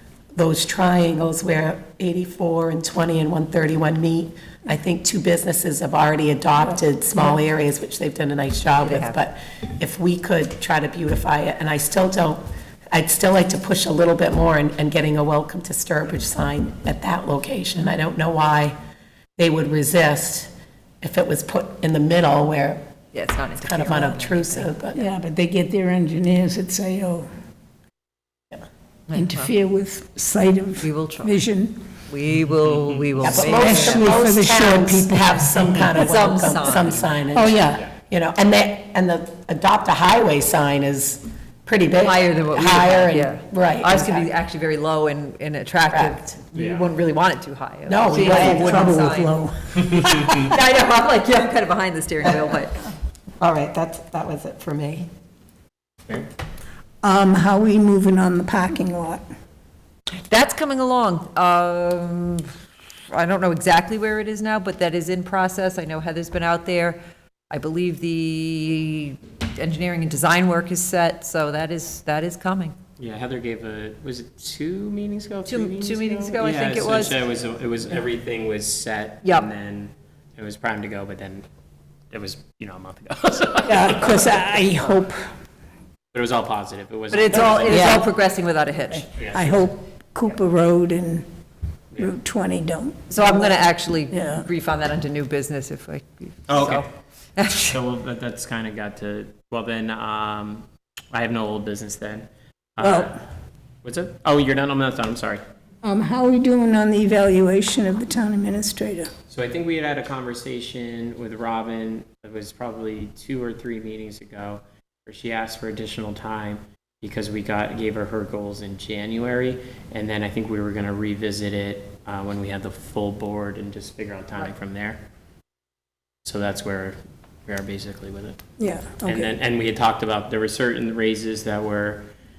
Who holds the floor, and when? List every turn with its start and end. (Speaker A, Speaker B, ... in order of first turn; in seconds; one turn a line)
Speaker A: 0.3-18.8
Speaker B: 8.8-9.2
Speaker A: 19.4-22.9
Speaker B: 23.1-24.7
Speaker A: 23.6-25.0
Speaker C: 24.9-27.3
Speaker B: 29.1-29.5
Speaker C: 29.1-31.8
Speaker B: 30.8-31.4
Speaker B: 32.1-34.1
Speaker A: 33.2-44.3
Speaker C: 33.2-36.0
Speaker B: 35.9-37.0
Speaker D: 36.7-37.0
Speaker C: 37.3-37.9
Speaker B: 42.0-52.9
Speaker A: 45.9-46.2
Speaker D: 46.5-46.9
Speaker A: 47.9-48.9
Speaker C: 48.1-50.5
Speaker D: 49.8-50.5
Speaker A: 53.4-55.1
Speaker C: 57.0-59.2
Speaker B: 60.3-62.6
Speaker B: 63.1-67.0
Speaker B: 67.5-72.7
Speaker D: 73.0-81.5
Speaker B: 75.5-77.2
Speaker B: 79.2-79.5
Speaker D: 82.1-84.4
Speaker C: 83.6-85.3
Speaker D: 86.1-88.1
Speaker B: 87.1-89.1
Speaker C: 87.6-88.1
Speaker C: 88.9-91.3
Speaker D: 89.2-89.7
Speaker C: 92.0-94.5
Speaker B: 93.1-97.8
Speaker D: 96.5-96.9
Speaker D: 97.7-103.2
Speaker C: 102.8-103.2
Speaker D: 103.8-105.4
Speaker C: 105.8-109.1
Speaker D: 109.3-125.0
Speaker D: 126.2-128.4
Speaker C: 128.6-129.3
Speaker D: 129.0-132.1